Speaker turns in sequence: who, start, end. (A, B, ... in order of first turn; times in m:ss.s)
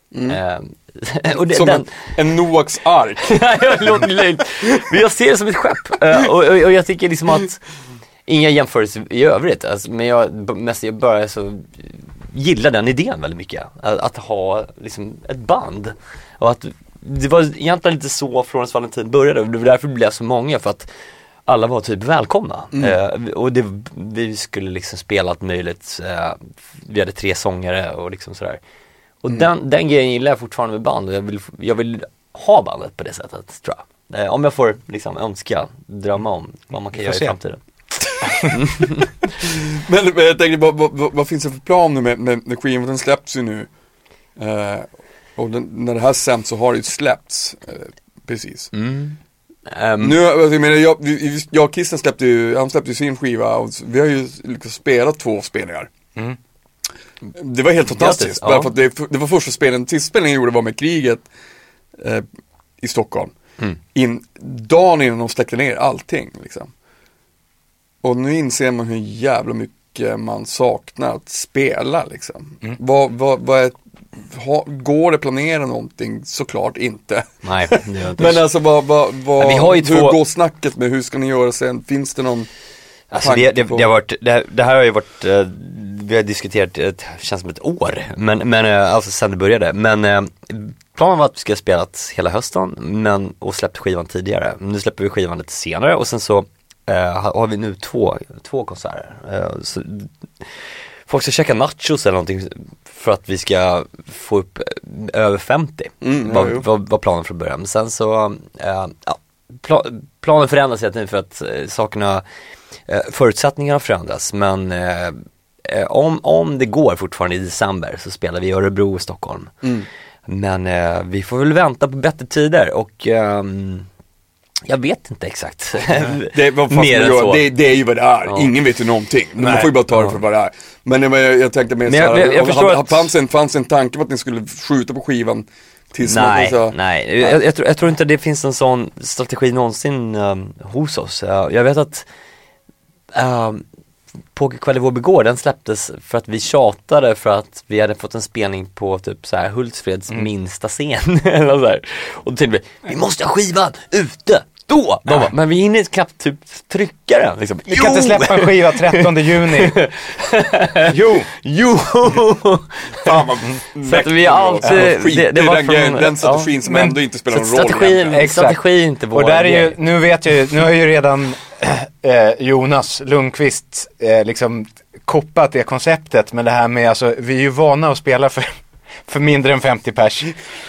0:00.1-0:00.4 A
0:00.3-0:01.9 B
0:01.5-0:03.8 A
0:03.3-0:07.6 B
0:08.3-0:20.9 B
0:21.5-0:28.6 B
0:29.2-0:37.6 B
0:37.0-0:37.3 C
0:38.4-0:39.1 B
0:39.4-0:43.7 A
0:44.4-0:48.7 A
0:48.7-0:50.2 B
0:50.0-0:55.9 A
0:57.3-1:01.3 A
0:57.9-0:58.7 B
1:02.0-1:02.2 A
1:02.8-1:03.3 A
1:03.9-1:06.7 A
1:08.0-1:22.5 A
1:17.4-1:18.4 B
1:19.4-1:20.2 B
1:23.1-1:40.5 B
1:23.2-1:23.9 A
1:41.1-1:52.2 B
1:46.0-1:46.7 A
1:52.9-1:59.5 B
1:59.6-1:59.9 A
2:00.3-2:03.9 B
2:04.7-2:07.5 B
2:06.3-2:17.4 A
2:08.2-2:08.5 B
2:09.4-2:09.7 C
2:09.5-2:10.2 B
2:11.9-2:13.1 B
2:16.0-2:22.1 B
2:23.2-2:23.6 B
2:24.4-2:43.2 B
2:37.7-2:39.8 C
2:40.9-2:41.3 C
2:43.0-2:48.2 A
2:43.8-2:46.5 B
2:46.6-2:47.0 C
2:47.3-2:49.8 B
2:48.1-2:48.6 C
2:49.1-2:58.5 C
2:59.1-3:00.4 C